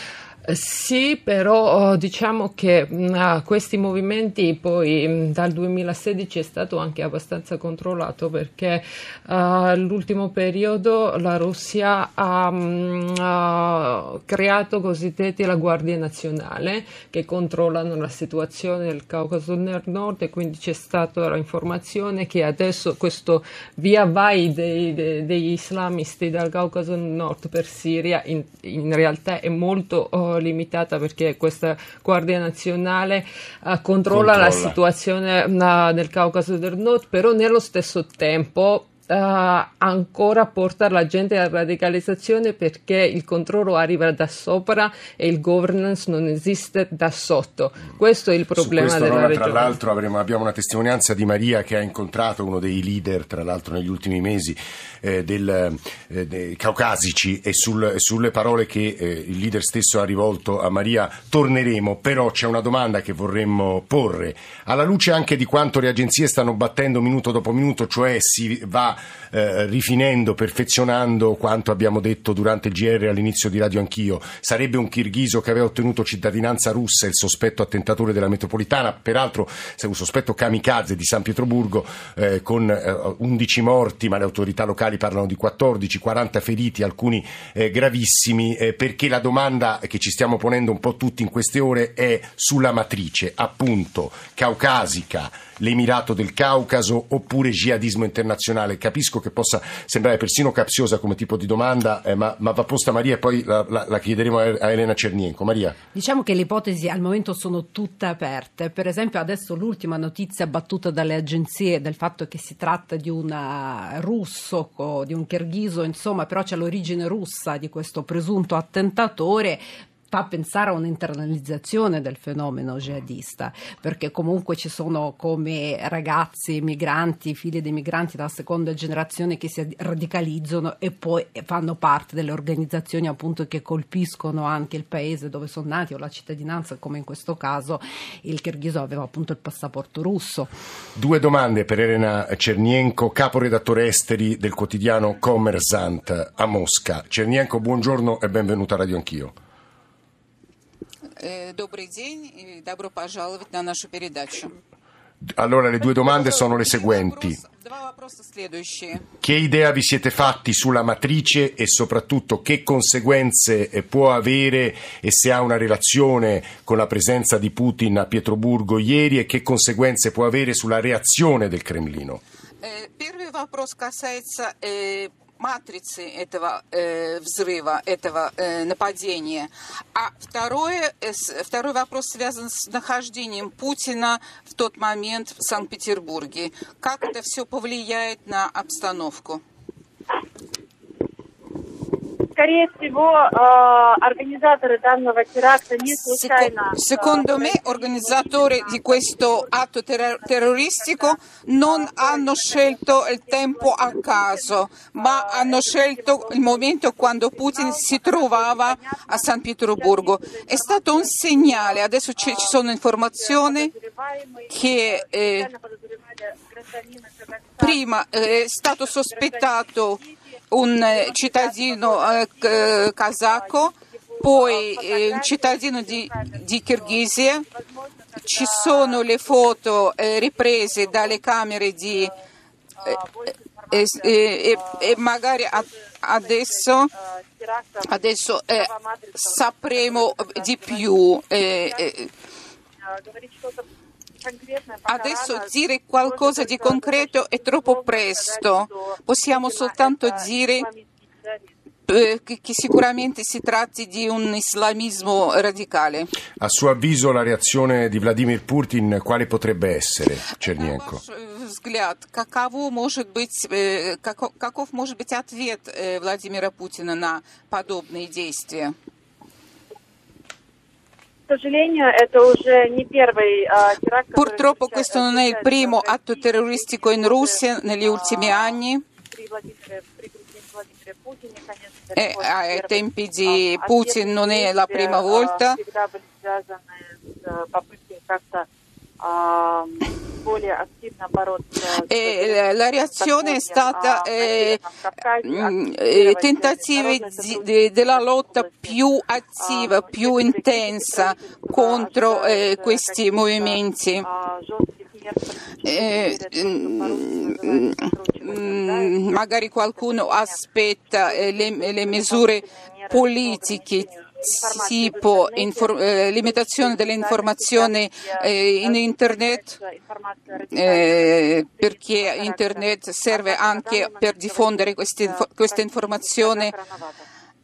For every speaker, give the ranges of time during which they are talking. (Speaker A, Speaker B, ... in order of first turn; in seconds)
Speaker A: 0.5-49.8
Speaker B: 34.1-34.8, 48.6-105.8, 141.0-149.3, 155.2-157.4, 159.2-172.2, 256.4-261.0
Speaker C: 105.9-140.5
Speaker D: 151.2-154.5, 155.8-159.1, 172.6-189.4, 195.8-213.7, 214.5-215.5, 217.6-220.0, 220.5-227.5, 228.2-232.1, 233.7-236.9, 237.8-242.1, 244.9-250.7, 251.9-256.1, 260.4-268.8, 274.1-278.8, 281.9-285.6, 291.9-294.6, 295.2-304.1, 305.6-319.6, 320.5-326.6
Speaker E: 192.4-199.5, 200.1-217.8, 218.4-229.6, 230.4-232.2, 232.8-241.9, 242.9-243.7, 244.2-251.5, 271.3-288.5, 289.0-298.8, 299.4-309.1, 309.7-327.1